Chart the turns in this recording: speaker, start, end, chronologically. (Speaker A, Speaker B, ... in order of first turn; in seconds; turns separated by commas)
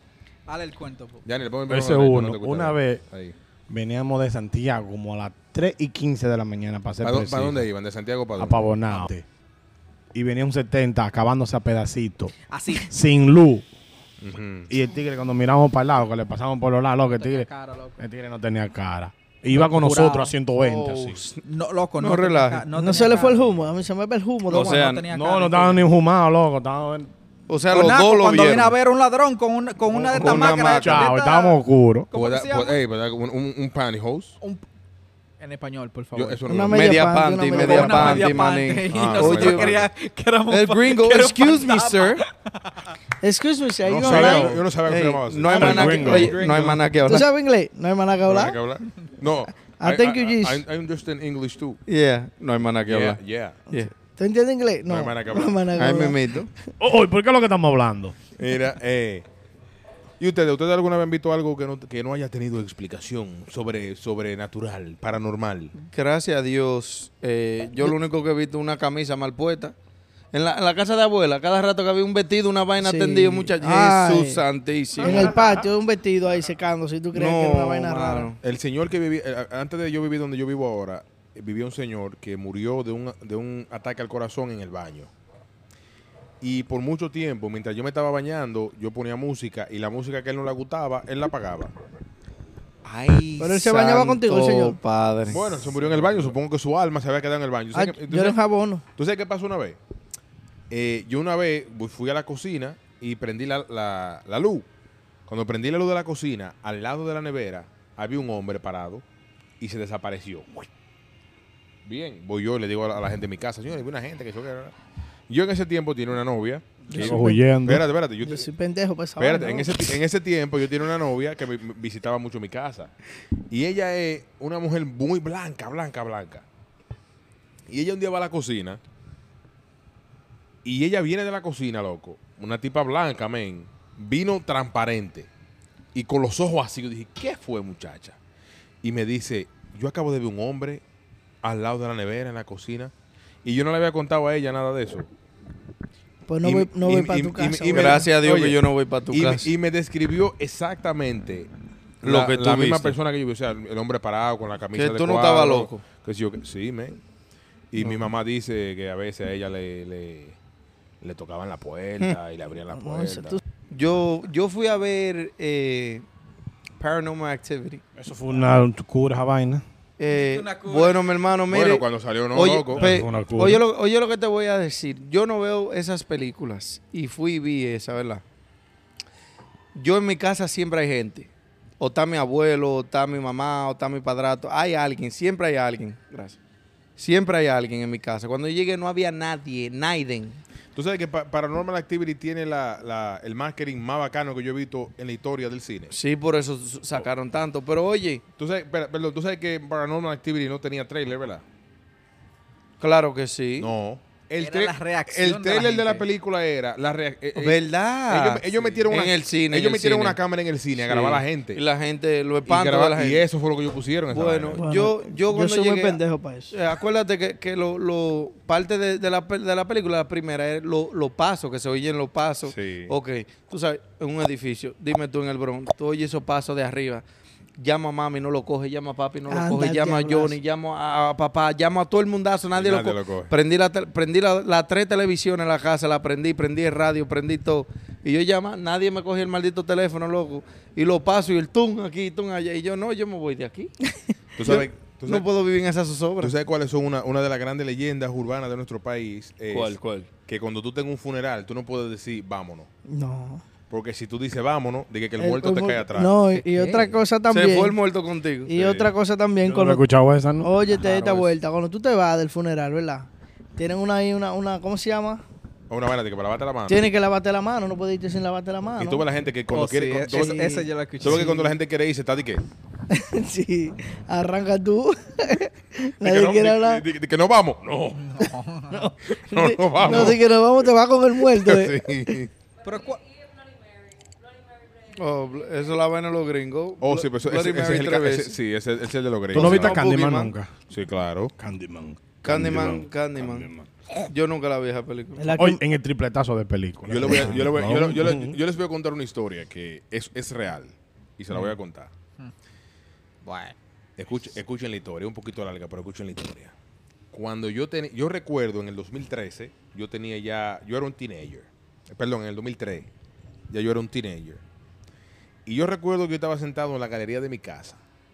Speaker A: 0.5-1.2, Speaker B: 1.2-3.4, Speaker C: 1.7-3.0, Speaker C: 3.7-7.7, Speaker B: 7.0-9.1, Speaker C: 8.4-9.2, Speaker C: 10.1-13.7, Speaker A: 12.5-12.9, Speaker B: 14.2-14.7, Speaker C: 14.7-21.2, Speaker A: 17.1-18.0, Speaker A: 19.5-20.3, Speaker D: 20.6-21.4, Speaker A: 21.4-23.4, Speaker D: 22.0-22.6, Speaker E: 22.8-24.9, Speaker D: 24.5-25.0, Speaker A: 24.5-25.9, Speaker C: 25.1-27.1, Speaker D: 27.5-28.7, Speaker A: 27.7-31.6, Speaker C: 29.9-32.1, Speaker D: 30.1-31.1, Speaker A: 32.1-32.8, Speaker B: 32.1-34.4, Speaker A: 35.4-36.4, Speaker B: 36.1-37.1, Speaker E: 36.5-38.4, Speaker D: 36.7-39.8, Speaker A: 37.4-43.0, Speaker B: 38.9-39.9, Speaker D: 40.5-42.2, Speaker E: 43.2-44.6, Speaker B: 43.8-46.8, Speaker C: 44.0-44.5, Speaker D: 44.2-47.3, Speaker C: 45.5-46.8, Speaker E: 47.0-48.6, Speaker B: 48.2-51.8, Speaker E: 49.8-50.6, Speaker D: 51.9-53.9, Speaker B: 52.9-53.6, Speaker E: 53.8-56.2, Speaker B: 54.9-55.7, Speaker D: 55.8-56.5, Speaker C: 56.8-58.1, Speaker B: 58.4-59.2, Speaker B: 60.2-65.7, Speaker D: 65.8-69.8, Speaker D: 70.3-75.3, Speaker E: 72.8-74.4, Speaker E: 75.0-78.3, Speaker C: 75.0-75.6, Speaker D: 77.1-78.4, Speaker B: 78.4-85.1, Speaker B: 86.4-91.7, Speaker D: 92.8-95.6, Speaker E: 93.4-94.8, Speaker B: 95.3-98.4, Speaker E: 97.7-98.8, Speaker B: 99.0-99.8, Speaker B: 100.7-104.7, Speaker B: 105.3-109.0, Speaker B: 109.6-110.7, Speaker B: 111.8-114.7, Speaker B: 115.3-118.5, Speaker E: 116.9-117.4, Speaker C: 116.9-117.8, Speaker E: 118.2-120.0, Speaker B: 119.2-122.9, Speaker B: 123.5-126.4, Speaker B: 127.7-128.8, Speaker B: 130.6-135.3, Speaker B: 135.9-138.2, Speaker B: 138.8-140.8, Speaker B: 141.4-142.9, Speaker B: 143.4-145.1, Speaker E: 146.3-148.1, Speaker B: 146.4-151.5, Speaker D: 147.7-149.5, Speaker B: 152.0-157.0, Speaker D: 152.0-153.0, Speaker D: 154.7-155.8, Speaker B: 157.7-160.4, Speaker D: 157.8-158.0, Speaker B: 161.0-163.4, Speaker E: 162.8-163.4, Speaker D: 163.7-166.0, Speaker D: 166.8-167.8, Speaker C: 167.9-169.6, Speaker D: 170.0-178.2, Speaker A: 170.1-171.1, Speaker B: 171.5-173.1, Speaker C: 172.7-173.6, Speaker D: 179.7-186.4, Speaker D: 187.0-190.4, Speaker B: 190.7-195.9, Speaker D: 195.9-198.2, Speaker B: 198.4-201.4, Speaker D: 202.8-203.7, Speaker B: 203.6-211.6, Speaker A: 204.4-206.0, Speaker D: 207.4-210.2, Speaker D: 210.7-213.3, Speaker B: 212.4-214.6, Speaker D: 214.1-227.0, Speaker E: 214.6-216.5, Speaker B: 222.5-222.9, Speaker D: 227.6-243.7, Speaker E: 229.3-230.4, Speaker B: 232.5-233.3, Speaker B: 244.3-245.3, Speaker D: 244.4-246.3, Speaker B: 246.2-252.7, Speaker D: 249.5-250.1, Speaker E: 252.9-253.4, Speaker B: 253.7-256.2, Speaker E: 255.2-257.8, Speaker A: 256.4-256.9, Speaker D: 257.3-258.5, Speaker E: 258.5-259.8, Speaker B: 258.5-258.9, Speaker C: 259.4-260.5, Speaker E: 260.4-265.2, Speaker D: 260.8-261.2, Speaker B: 265.7-266.9, Speaker E: 266.7-269.0, Speaker B: 268.8-272.4, Speaker A: 269.5-271.5, Speaker E: 270.1-271.5, Speaker E: 272.9-276.8, Speaker B: 276.0-278.3, Speaker A: 278.0-278.9, Speaker E: 278.7-282.2, Speaker B: 279.1-280.2, Speaker D: 279.8-280.2, Speaker B: 281.3-282.3, Speaker A: 282.6-283.0, Speaker D: 284.9-288.3, Speaker B: 286.8-289.8, Speaker C: 289.3-290.6, Speaker D: 289.3-290.3, Speaker B: 290.7-291.3, Speaker C: 291.4-293.9, Speaker D: 292.2-293.5, Speaker D: 294.0-295.4, Speaker E: 295.2-295.6, Speaker C: 295.4-298.4, Speaker B: 296.9-301.9, Speaker A: 303.2-303.5, Speaker B: 304.0-306.5, Speaker B: 307.1-312.9, Speaker B: 313.5-314.4, Speaker B: 315.4-317.8